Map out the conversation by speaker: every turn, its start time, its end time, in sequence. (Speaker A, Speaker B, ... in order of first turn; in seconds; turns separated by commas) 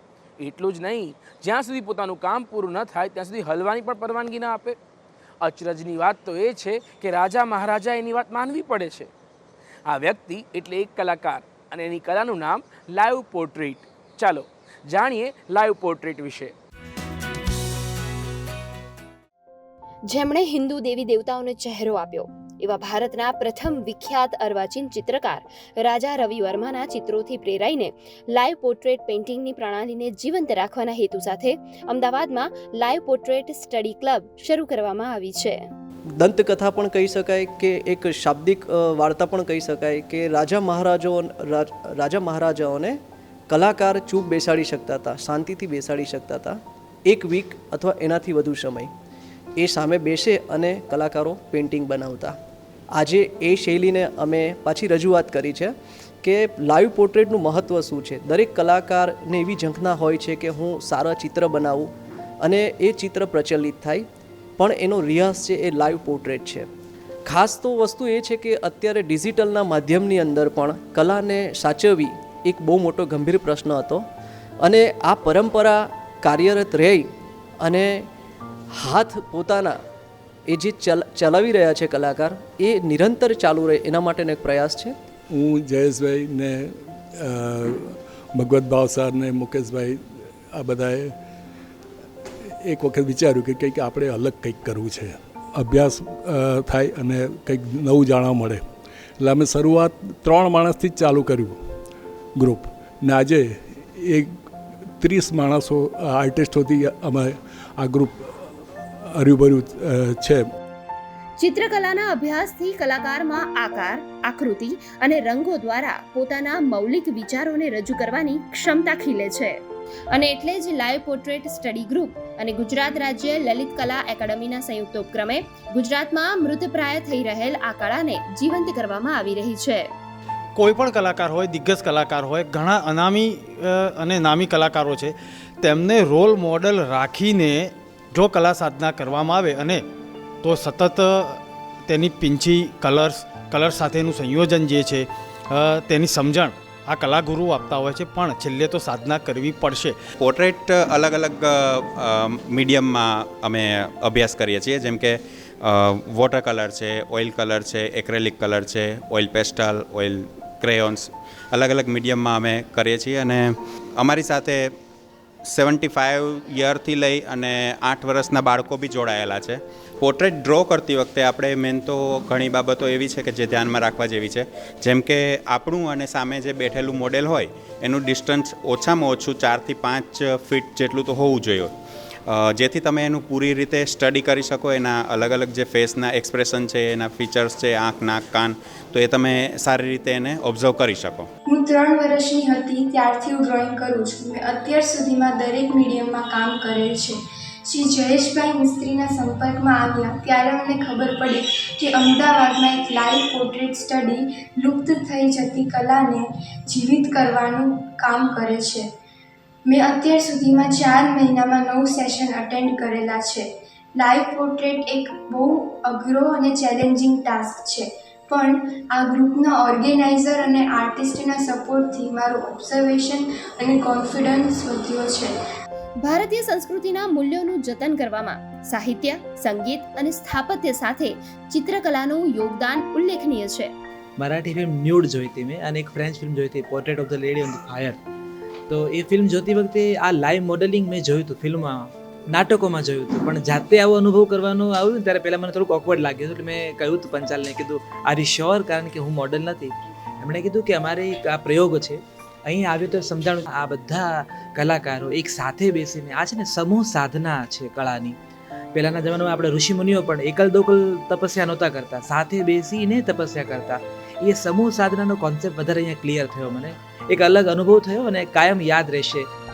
Speaker A: 0.4-4.8, Speaker A: 5.4-9.1, Speaker A: 9.9-16.5, Speaker B: 20.1-35.6, Speaker C: 36.2-43.0, Speaker C: 43.5-48.9, Speaker C: 49.6-52.4, Speaker C: 52.9-61.9, Speaker C: 62.4-64.1, Speaker C: 64.6-66.7, Speaker C: 67.3-74.0, Speaker C: 74.6-77.1, Speaker C: 77.6-78.1, Speaker C: 78.7-79.8, Speaker C: 80.5-85.0, Speaker D: 85.3-90.0, Speaker D: 90.5-91.1, Speaker D: 92.6-98.6, Speaker D: 99.2-101.6, Speaker D: 102.4-104.3, Speaker D: 105.0-108.3, Speaker D: 109.2-110.4, Speaker B: 111.4-119.6, Speaker B: 120.1-129.9, Speaker E: 130.6-139.8, Speaker E: 140.4-150.0, Speaker F: 150.2-164.7, Speaker F: 165.4-181.7, Speaker F: 182.3-191.3, Speaker G: 191.5-208.9, Speaker G: 209.7-225.4, Speaker B: 226.0-233.7, Speaker H: 234.2-237.9, Speaker H: 238.7-241.8, Speaker H: 242.4-249.7, Speaker H: 250.2-251.9, Speaker H: 252.5-254.0, Speaker H: 254.6-258.1, Speaker H: 258.8-269.2